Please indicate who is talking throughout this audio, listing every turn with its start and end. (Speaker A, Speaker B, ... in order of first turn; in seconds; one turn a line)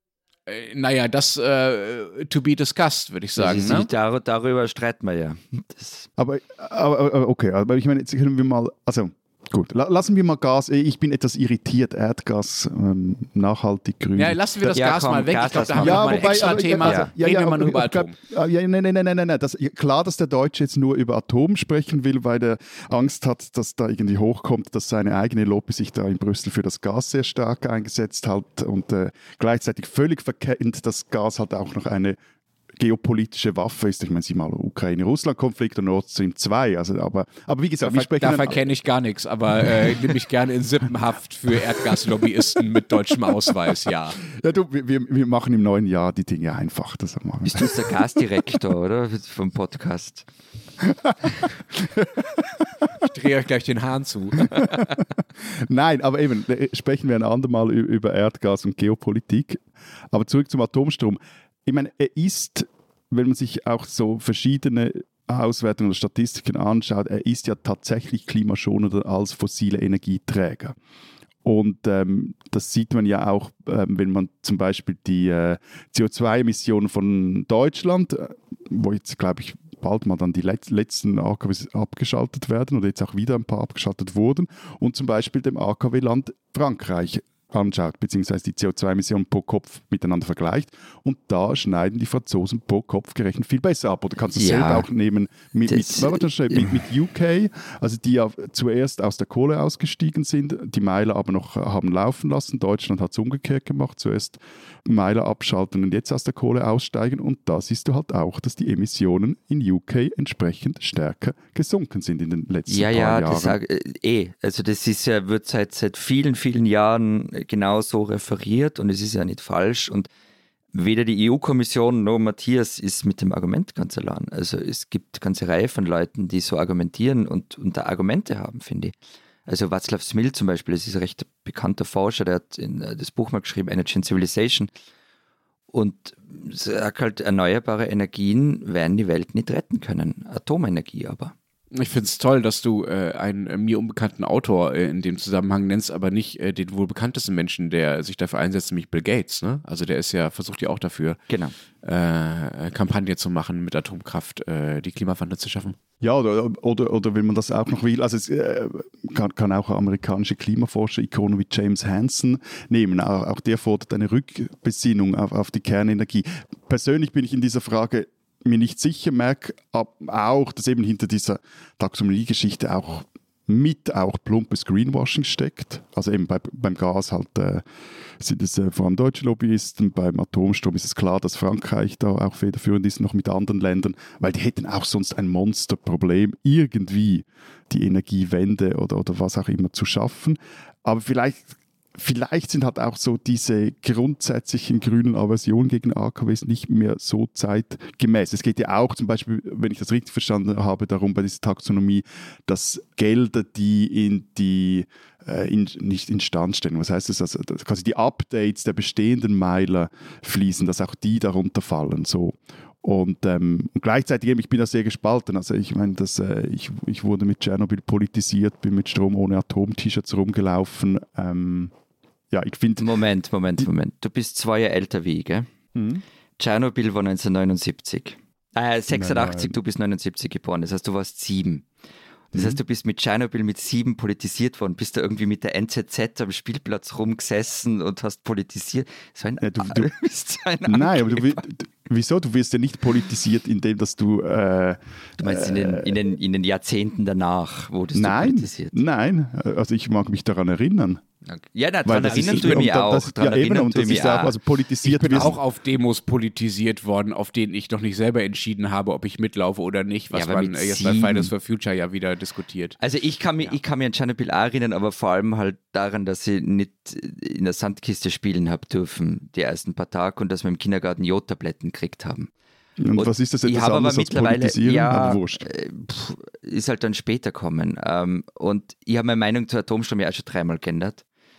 Speaker A: 0.5-3.9
Speaker B: 3.4-6.1
Speaker C: 6.2-14.8
Speaker A: 14.2-18.1
Speaker B: 14.7-17.1
Speaker C: 15.5-32.2
Speaker C: 32.8-38.6
Speaker A: 37.9-44.2
Speaker C: 39.6-40.2
Speaker C: 44.2-48.5
Speaker B: 47.4-50.3
Speaker C: 50.8-52.9
Speaker A: 53.0-54.8
Speaker C: 54.4-70.7
Speaker C: 71.4-113.6
Speaker B: 94.3-94.8
Speaker B: 95.7-96.8
Speaker B: 112.7-120.1
Speaker B: 120.7-128.9
Speaker B: 129.5-134.7
Speaker B: 135.7-141.3
Speaker A: 141.7-151.2
Speaker B: 151.3-151.5
Speaker A: 151.8-155.8
Speaker C: 156.0-177.6
Speaker C: 178.2-221.7
Speaker C: 222.3-222.9
Speaker B: 222.8-225.5
Speaker C: 225.7-226.0
Speaker B: 226.4-231.7
Speaker C: 228.9-229.5
Speaker C: 232.3-232.6
Speaker B: 232.3-241.4
Speaker C: 239.4-239.9
Speaker C: 240.7-246.0
Speaker B: 245.2-248.8
Speaker C: 247.9-251.0
Speaker B: 251.2-254.4
Speaker C: 251.8-255.4
Speaker A: 254.8-262.8
Speaker B: 260.1-261.3
Speaker B: 262.8-272.3
Speaker C: 272.8-275.4
Speaker B: 272.9-281.0